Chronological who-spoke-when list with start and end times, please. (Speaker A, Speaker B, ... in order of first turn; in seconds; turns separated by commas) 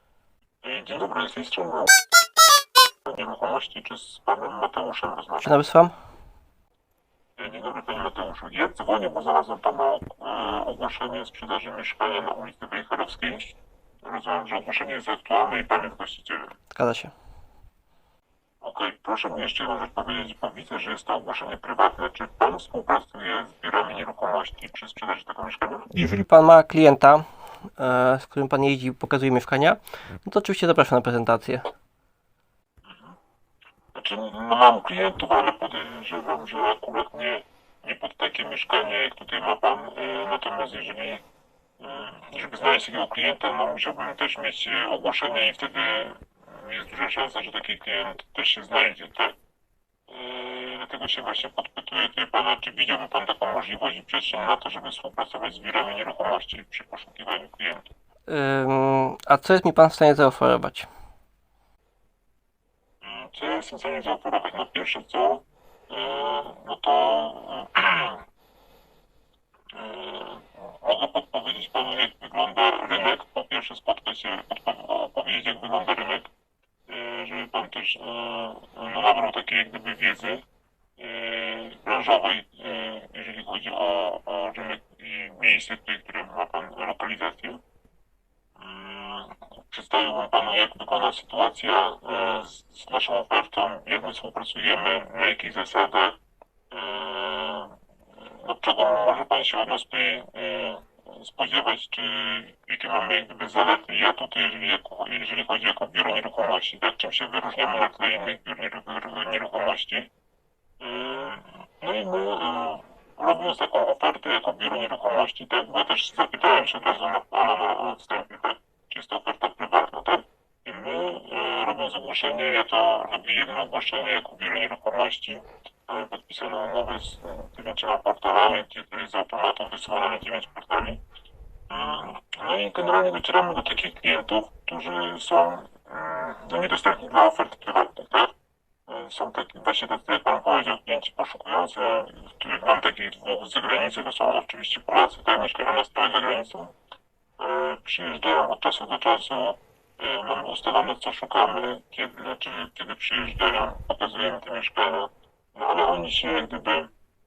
Speaker A: 0.6-1.9, Speaker A: 3.1-5.6, Speaker B: 5.4-5.9, Speaker A: 7.4-16.5, Speaker B: 16.7-17.1, Speaker A: 18.6-25.9, Speaker B: 25.9-27.2, Speaker B: 27.8-31.7, Speaker A: 32.9-33.2, Speaker A: 33.9-41.2, Speaker A: 41.8-49.4, Speaker A: 50.1-57.9, Speaker B: 58.3-60.9, Speaker A: 63.0-68.2, Speaker A: 69.7-76.3, Speaker A: 76.9-80.5, Speaker A: 81.0-87.6, Speaker A: 88.6-96.2, Speaker A: 96.7-110.1, Speaker A: 110.8-131.0, Speaker A: 131.7-138.3, Speaker A: 138.9-146.7, Speaker A: 147.4-156.9